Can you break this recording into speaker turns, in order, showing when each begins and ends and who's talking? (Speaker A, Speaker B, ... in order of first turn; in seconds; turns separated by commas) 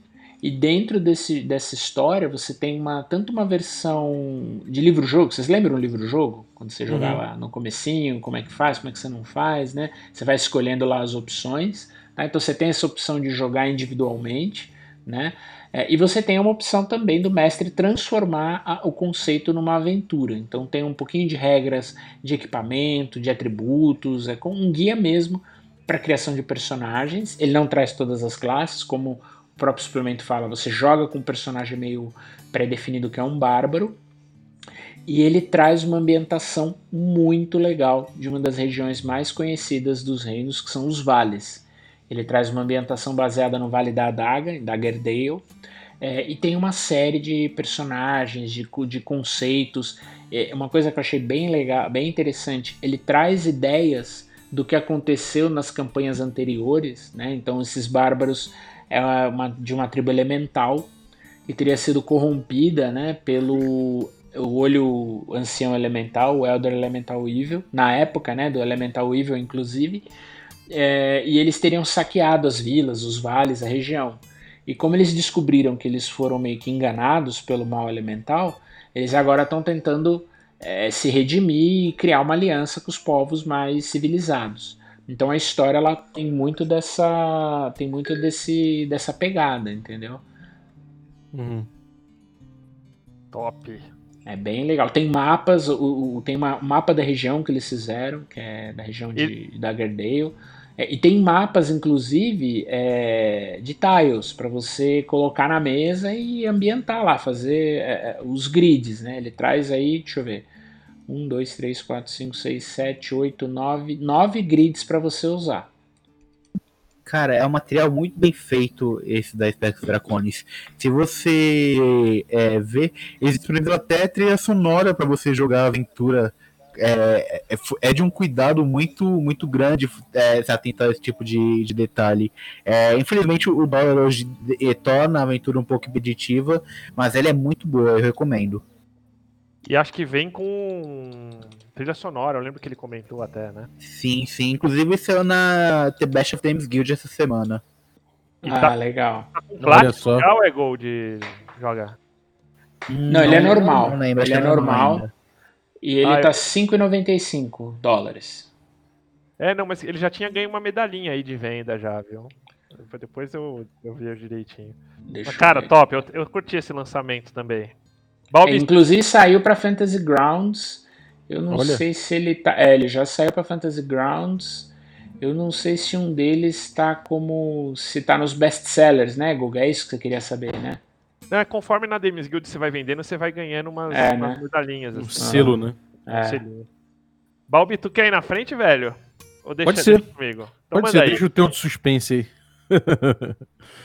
Speaker A: 0.4-34.0, Speaker B: 6.9-7.2, Speaker A: 35.1-45.5, Speaker A: 46.0-60.9, Speaker A: 61.5-70.1, Speaker A: 70.7-90.2, Speaker B: 91.3-91.7, Speaker C: 93.3-93.9, Speaker A: 94.3-110.5, Speaker A: 111.1-115.7, Speaker D: 117.1-138.6, Speaker C: 139.7-143.7, Speaker D: 143.8-147.6, Speaker A: 148.4-149.8, Speaker C: 148.4-148.8, Speaker C: 149.3-152.0, Speaker B: 149.6-150.3, Speaker D: 152.9-155.1, Speaker A: 153.1-155.1, Speaker A: 155.8-158.5, Speaker C: 156.0-156.3, Speaker C: 159.4-167.7, Speaker A: 165.1-165.8, Speaker C: 168.3-168.7, Speaker A: 168.4-180.8, Speaker B: 171.5-171.8, Speaker C: 181.3-186.7, Speaker A: 183.9-184.4, Speaker B: 184.9-185.8, Speaker A: 185.2-186.4, Speaker C: 187.5-191.2, Speaker B: 189.7-190.1, Speaker B: 190.7-193.4